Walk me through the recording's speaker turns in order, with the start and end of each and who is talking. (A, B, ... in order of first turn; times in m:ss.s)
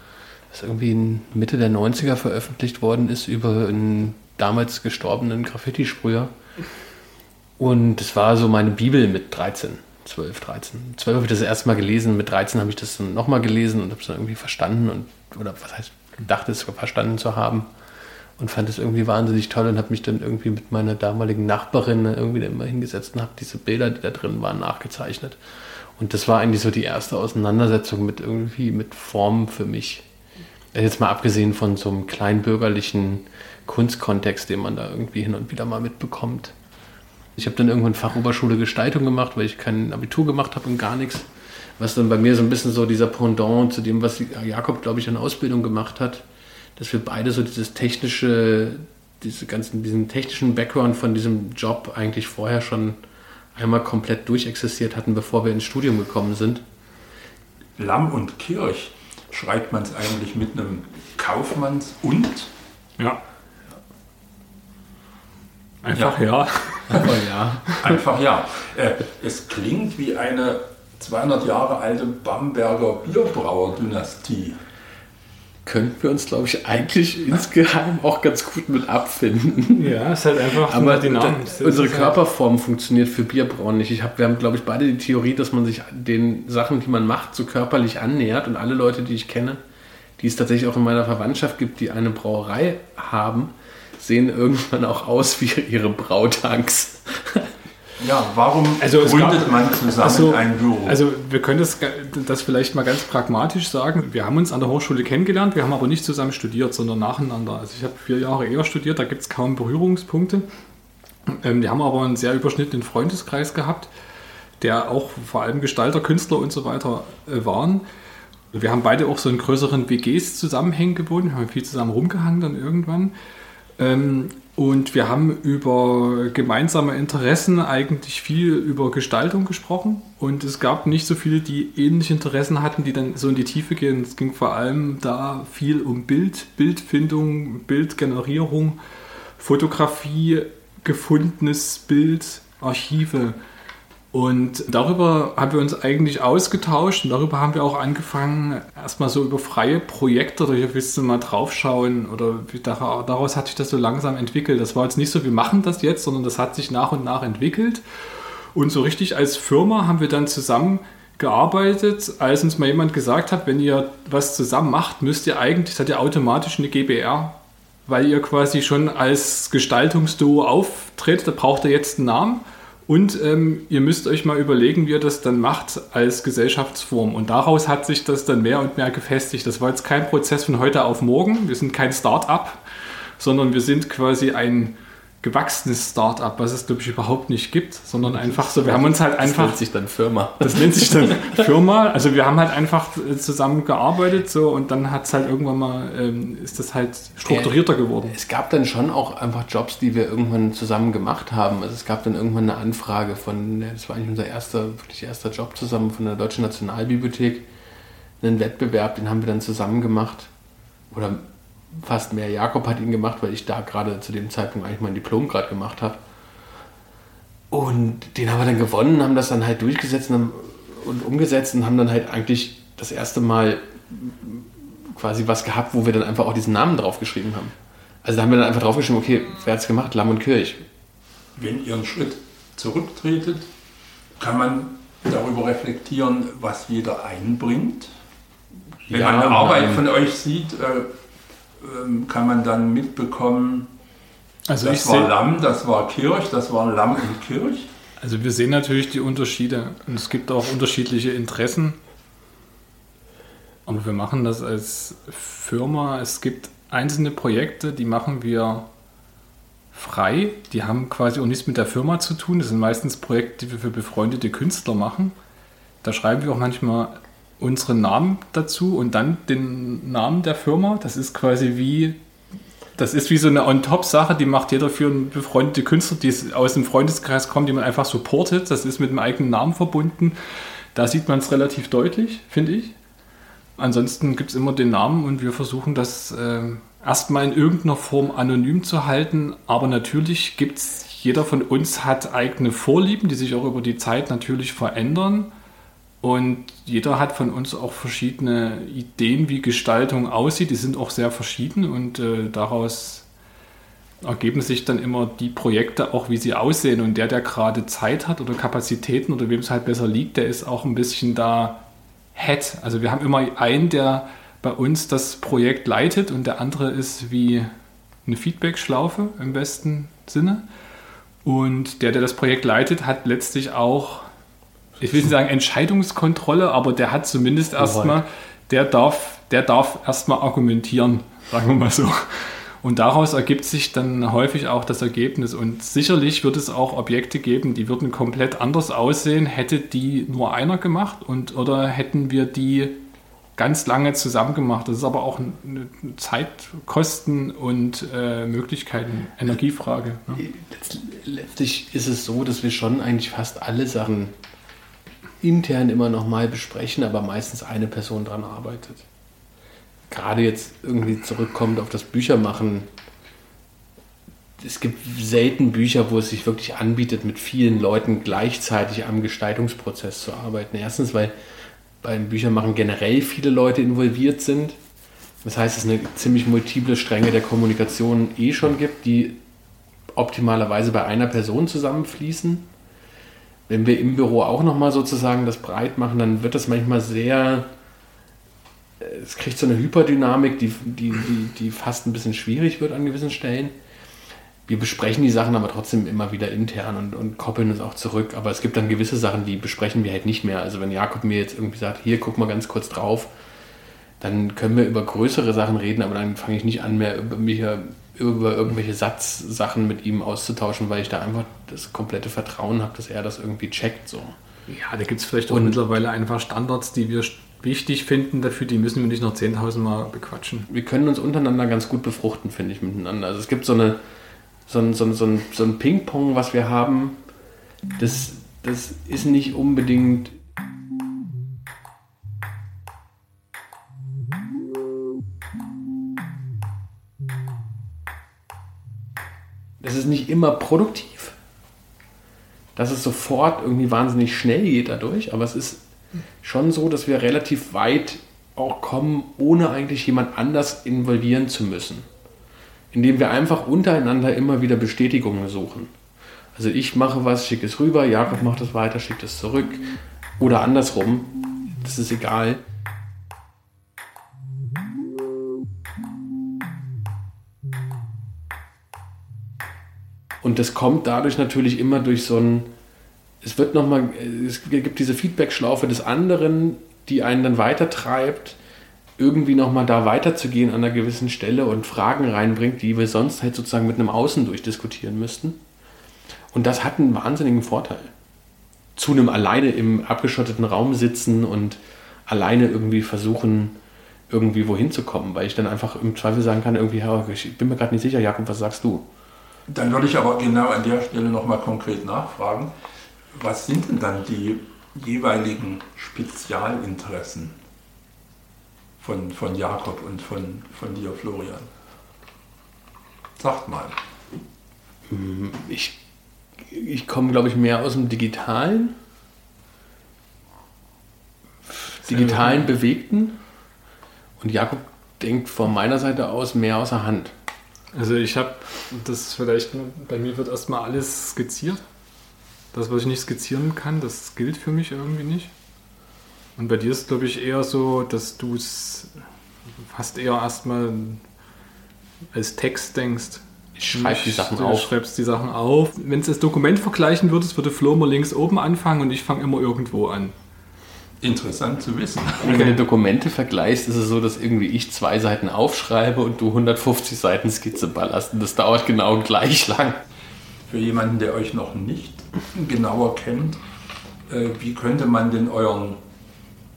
0:00.5-0:06.3 A
0:07.6-0:17.7 A
0:18.4-0:25.4 A
0:26.0-0:30.0 A
0:30.7-0:36.5 A
0:37.4-0:46.2 A
0:46.8-0:53.0 A
0:53.6-0:56.6 A
0:57.8-1:02.5 B
1:05.8-1:07.1 C
1:06.9-1:07.8 A
1:07.8-1:14.6 B
1:15.7-1:20.0 A
1:19.8-1:22.2 C
1:20.6-1:29.6 A
1:30.2-1:37.5 A
1:38.0-1:41.0 B
1:38.8-1:50.5 C
1:51.3-1:53.9 C
1:54.6-1:57.8 C
1:58.5-2:03.1 C
2:03.8-2:18.8 C
2:19.4-2:23.4 C
2:24.1-3:02.6 C
3:03.2-3:09.6 C
3:08.0-3:11.4 A
3:10.4-3:18.2 C
3:17.2-3:27.5 A
3:28.2-3:30.3 A
3:30.9-3:36.0 A
3:37.5-3:50.6 A
3:51.4-3:53.5 B
3:54.2-3:57.9 B
3:58.9-3:59.8 A
3:58.9-4:00.9 B
4:01.6-4:03.7 B
4:04.5-4:05.1 C
4:04.6-4:07.7 B
4:08.0-4:11.8 C
4:13.7-4:18.7 C
4:19.7-4:25.2 C
4:25.8-4:32.0 C
4:32.8-4:40.2 C
4:40.8-4:42.7 C
4:43.6-4:55.3 C
4:56.0-5:03.1 C
5:04.0-5:11.6 C
5:12.2-5:17.5 C
5:18.1-5:20.4 C
5:21.2-5:24.1 C
5:24.8-5:42.8 C
5:27.6-5:28.0 A
5:43.4-5:50.2 C
5:50.2-5:54.1 A
5:55.2-5:58.8 A
5:59.9-6:02.7 A
6:04.4-6:11.2 A
6:11.8-6:14.6 A
6:15.2-6:19.2 A
6:20.0-6:22.5 A
6:23.5-6:27.5 A
6:28.8-6:33.6 A
6:34.5-6:43.1 A
6:44.0-6:54.2 A
6:54.5-7:00.5 C
6:55.3-6:55.6 A
7:00.5-7:03.8 A
7:04.5-7:07.0 A
7:07.8-7:10.2 A
7:19.6-7:21.2 A
7:22.6-7:25.6 A
7:26.2-7:31.9 A
7:32.7-7:35.7 A
7:36.4-7:39.7 A
7:40.2-7:42.4 A
7:50.2-7:52.5 A
7:53.2-7:58.4 A
7:59.0-8:05.4 A
8:06.3-8:07.9 A
8:08.8-8:13.6 A
8:14.1-8:18.9 A
8:19.5-8:22.5 B
8:23.1-8:27.4 B
8:28.8-8:31.5 B
8:33.2-8:33.8 B
8:34.9-8:35.8 A
8:36.4-8:38.8 A
8:41.5-8:43.2 A
8:41.9-8:42.5 C
8:44.2-8:47.2 A
8:47.7-8:51.6 C
8:52.5-8:55.3 C
8:56.4-8:58.9 C
8:59.6-9:01.0 C
9:02.1-9:03.2 C
9:03.6-9:04.7 A
9:03.7-9:10.1 C
9:11.0-9:12.6 B
9:12.2-9:19.8 A
9:20.5-9:23.4 B
9:24.1-9:25.8 B